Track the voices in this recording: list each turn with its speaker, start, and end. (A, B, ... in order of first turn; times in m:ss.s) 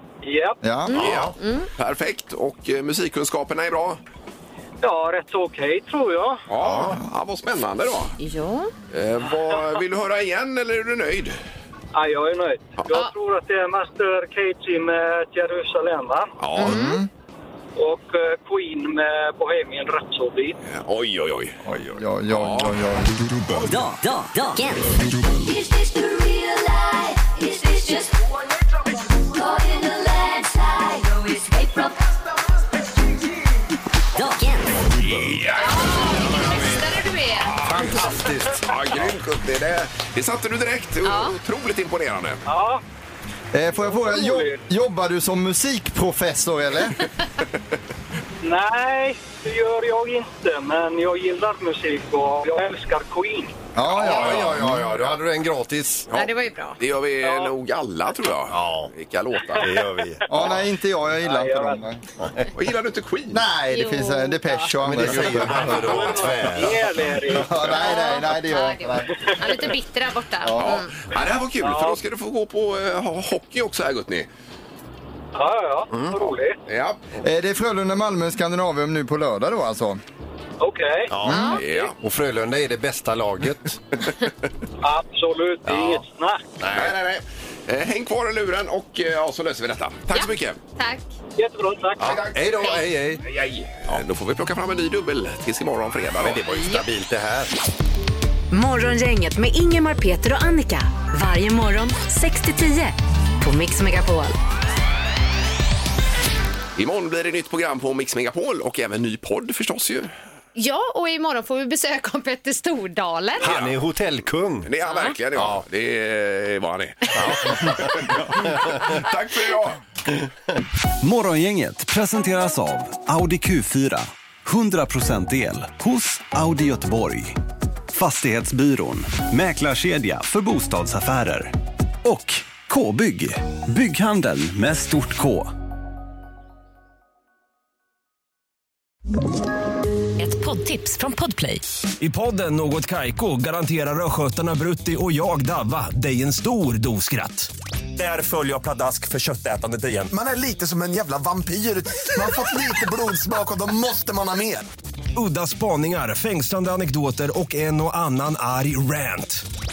0:00.2-0:00.6 A
0:00.6-0:01.0 B
0:00.9-0:01.7 C
0:00.9-0:01.4 D
0:00.9-0:04.0 E
0:04.8-0:06.4 A
0:06.5-0:08.2 E
0:06.6-0:07.0 D
0:08.2-0:08.7 C
0:08.9-0:11.4 E
0:11.9-0:16.3 A
0:16.4-0:16.8 E
0:16.6-0:17.0 C
0:16.6-0:17.1 B
0:17.8-0:20.6 A
0:20.7-0:21.6 E
0:21.7-0:23.3 B
0:22.3-0:22.8 E
0:23.5-0:28.3 F
0:29.1-0:32.1 F
0:34.2-0:34.9 F
0:35.0-0:35.4 D
0:35.0-0:36.2 E
0:35.6-0:37.6 C
0:36.0-0:37.0 D
0:37.5-0:42.4 E
0:37.6-0:39.1 D
0:41.0-0:41.4 C
0:42.5-0:42.8 A
0:43.5-0:47.0 B
0:43.9-0:44.6 A
0:48.4-0:53.5 A
0:53.8-0:54.9 B
0:53.9-0:56.1 D
0:56.1-0:59.8 E
0:56.1-0:56.8 C
0:57.2-0:57.5 A
0:58.5-0:58.9 D
0:59.6-1:00.6 D
1:00.3-1:02.0 B
1:01.2-1:01.8 A
1:02.2-1:02.5 D
1:02.5-1:03.4 E
1:03.3-1:06.1 B
1:03.7-1:04.8 C
1:04.8-1:07.8 D
1:05.1-1:06.5 E
1:05.8-1:07.6 A
1:07.3-1:09.2 B
1:07.7-1:10.9 C
1:10.4-1:10.8 B
1:10.6-1:14.3 E
1:11.6-1:12.0 A
1:15.4-1:16.6 A
1:15.9-1:16.4 D
1:16.7-1:17.0 E
1:17.2-1:20.0 B
1:20.6-1:21.2 A
1:21.1-1:23.8 D
1:21.2-1:21.6 B
1:21.3-1:21.6 C
1:21.6-1:22.0 E
1:24.8-1:26.4 A
1:25.7-1:26.1 D
1:26.6-1:27.0 D
1:26.7-1:30.6 E
1:30.1-1:31.1 C
1:31.4-1:32.1 A
1:32.0-1:33.2 D
1:32.0-1:36.8 E
1:36.2-1:37.5 D
1:38.5-1:44.3 G
1:46.8-1:50.1 E
1:50.6-1:53.5 C
1:53.4-1:54.7 D
1:53.4-1:53.8 E
1:54.6-1:59.8 E
1:55.4-1:55.6 D
1:57.1-1:59.0 D
2:01.0-2:07.4 H
2:07.9-2:15.5 H
2:20.2-2:21.6 G
2:22.0-2:30.1 I
2:30.1-2:34.7 J
2:35.2-2:39.4 I